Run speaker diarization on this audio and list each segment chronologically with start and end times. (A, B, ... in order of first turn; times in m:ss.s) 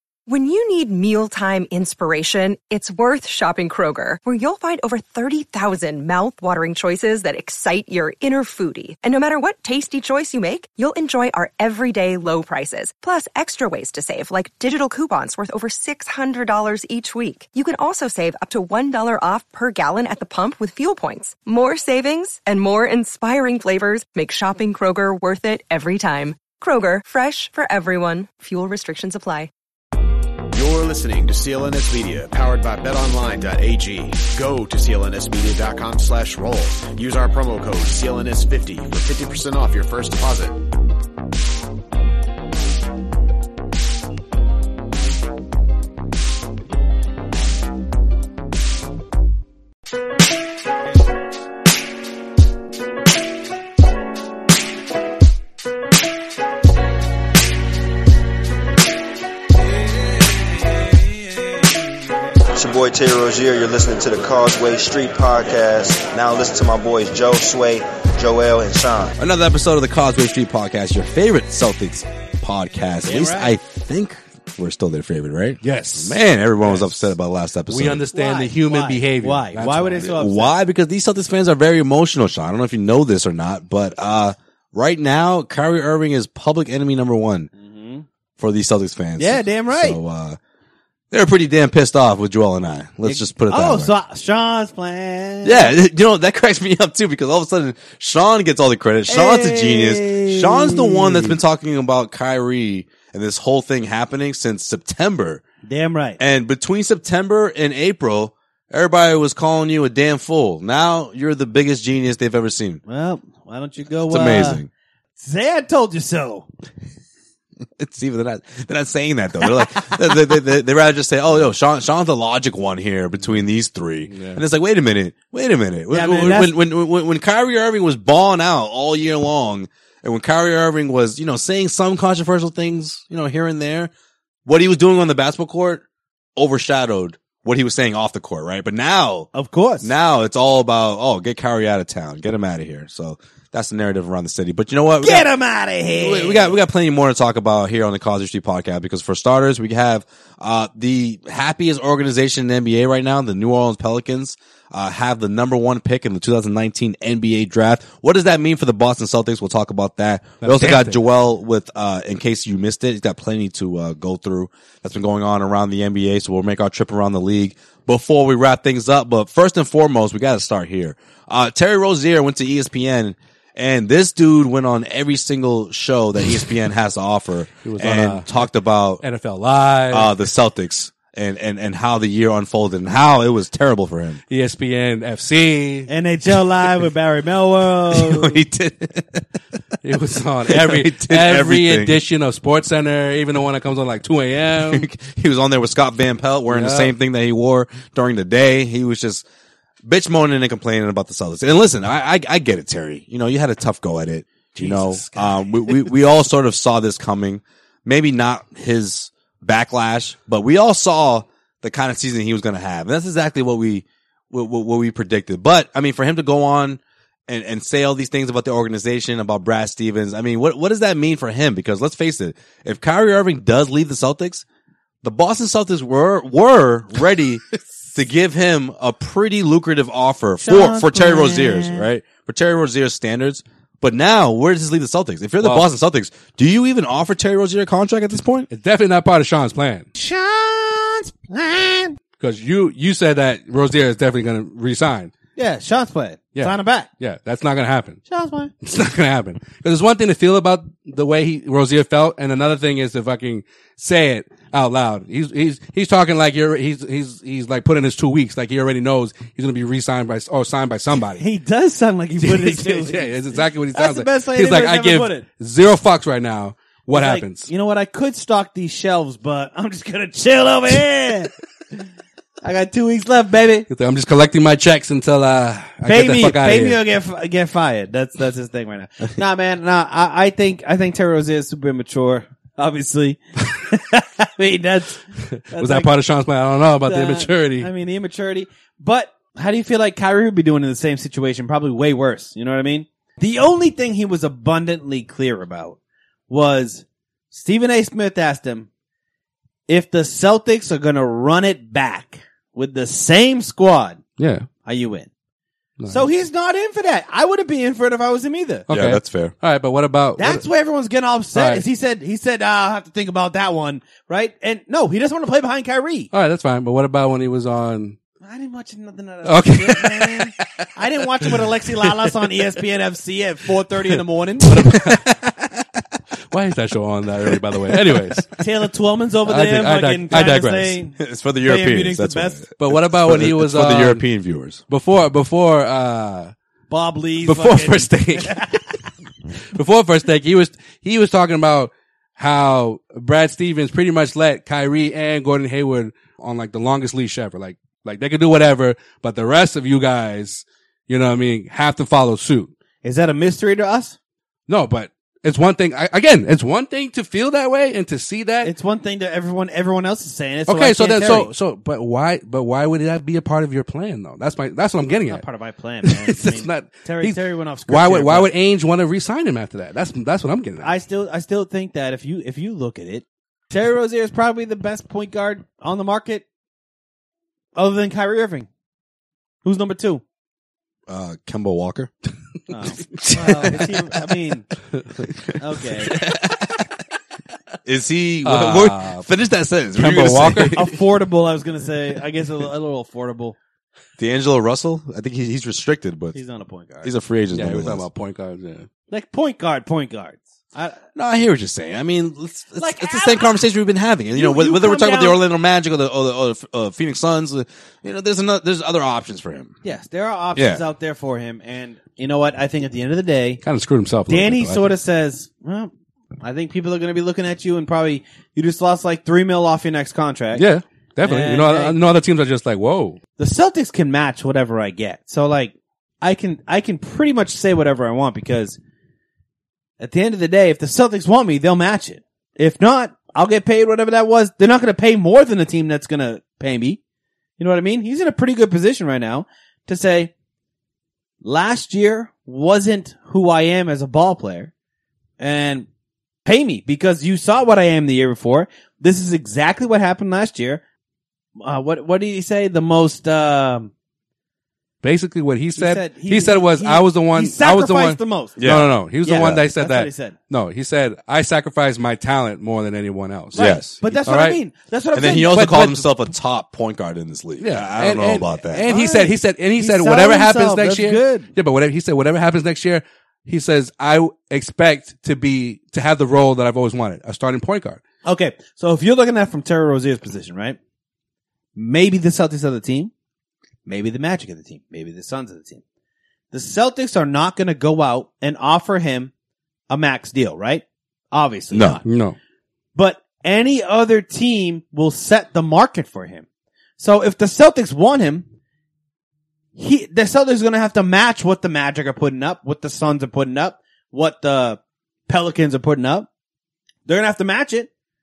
0:00.3-0:29.5 A
0:30.5-0:40.6 B
1:02.5-1:09.1 C
1:09.2-1:18.0 D
1:13.0-1:13.5 E
1:15.6-1:16.9 F
1:17.7-1:20.2 F
1:18.1-1:20.5 E
1:20.0-1:27.5 D
1:27.6-1:28.1 E
1:28.4-1:30.4 D
1:29.2-1:30.0 E
1:31.1-1:33.9 D
1:33.0-1:35.7 E
1:35.4-1:45.4 D
1:39.1-1:41.3 E
1:45.6-1:46.2 E
1:46.2-1:52.8 D
1:52.9-1:54.6 E
1:54.1-1:54.7 D
1:55.2-1:56.4 E
1:57.8-2:13.9 D
2:04.1-2:04.4 F
2:05.9-2:06.5 E
2:14.4-2:15.8 D
2:16.4-2:19.3 D
2:19.3-2:19.9 E
2:19.8-2:25.3 D
2:25.0-2:26.6 E
2:25.9-2:59.0 D
2:40.4-2:41.0 F
2:57.6-2:58.4 F
2:59.0-3:00.1 F
2:59.9-3:04.2 D
3:04.3-3:05.9 F
3:05.9-3:08.4 E
3:07.9-3:09.2 D
3:09.8-3:14.9 F
3:10.5-3:12.0 D
3:14.6-3:19.2 D
3:16.5-3:16.9 F
3:19.8-3:44.4 D
3:24.6-3:24.9 F
3:45.0-3:58.5 D
3:50.4-3:51.8 E
3:55.4-3:55.7 F
3:58.5-3:59.9 F
4:00.0-4:02.0 E
4:02.2-4:05.1 F
4:05.4-4:06.9 E
4:06.3-4:08.0 F
4:08.1-4:08.5 E
4:08.6-4:21.2 F
4:21.0-4:25.2 E
4:22.2-4:27.5 F
4:26.9-4:31.3 E
4:32.4-4:33.7 E
4:33.7-4:36.8 F
4:35.8-4:45.0 E
4:45.3-4:47.7 F
4:45.5-4:45.9 E
4:46.8-4:55.8 E
4:56.3-4:58.7 E
4:59.7-5:04.0 E
5:04.2-5:04.5 F
5:04.6-5:05.1 E
5:05.8-5:06.0 F
5:05.9-5:08.6 E
5:08.7-5:10.4 F
5:08.7-5:09.3 D
5:10.2-5:16.1 E
5:11.3-5:11.6 F
5:16.1-5:18.0 F
5:18.2-5:24.8 E
5:19.2-5:20.4 F
5:24.4-5:25.2 F
5:26.3-5:28.4 F
5:28.4-5:32.4 E
5:29.2-5:30.8 F
5:31.0-5:34.6 D
5:32.6-5:34.0 F
5:34.7-5:36.3 F
5:36.7-5:38.7 E
5:37.2-5:38.5 F
5:39.5-5:52.5 F
5:52.8-5:54.0 E
5:54.5-5:58.5 F
5:58.4-6:01.3 E
6:00.5-6:05.2 F
6:05.0-6:08.3 E
6:05.8-6:10.8 F
6:10.6-6:16.2 E
6:17.6-6:18.5 E
6:19.4-6:20.0 E
6:20.9-6:21.9 D
6:22.5-6:24.5 E
6:22.9-6:23.9 D
6:25.4-6:26.0 E
6:25.9-6:26.4 D
6:27.6-6:30.7 D
6:28.2-6:29.0 F
6:29.8-6:30.7 F
6:30.5-6:33.4 E
6:34.0-6:36.2 D
6:36.1-6:36.9 E
6:36.8-6:37.9 D
6:37.3-6:38.7 F
6:38.9-6:40.8 E
6:41.0-6:49.6 D
6:42.6-6:43.4 E
6:44.1-6:45.2 E
6:49.6-6:53.4 E
6:50.3-6:50.6 D
6:53.4-6:54.7 F
6:54.1-7:00.4 E
7:00.3-7:03.0 F
7:01.0-7:01.7 E
7:03.2-7:08.6 E
7:09.8-7:16.8 E
7:17.4-7:20.1 E
7:21.2-7:24.5 E
7:25.2-7:25.7 E
7:26.2-7:30.6 E
7:31.4-7:33.7 E
7:34.8-7:44.4 F
7:35.6-7:40.2 E
7:38.4-7:39.4 D
7:43.3-7:45.5 E
7:43.3-7:43.8 D
7:44.9-7:48.6 D
7:45.3-7:45.9 F
7:47.4-7:57.8 F
7:48.6-7:51.3 E
7:58.0-8:00.6 E
8:01.6-8:02.9 E
8:03.6-8:05.6 E
8:06.3-8:09.1 E
8:09.7-8:11.8 E
8:11.5-8:11.8 D
8:11.8-8:12.2 F
8:12.7-8:16.2 E
8:16.8-8:18.3 E
8:19.6-8:26.1 E
8:26.8-8:27.7 E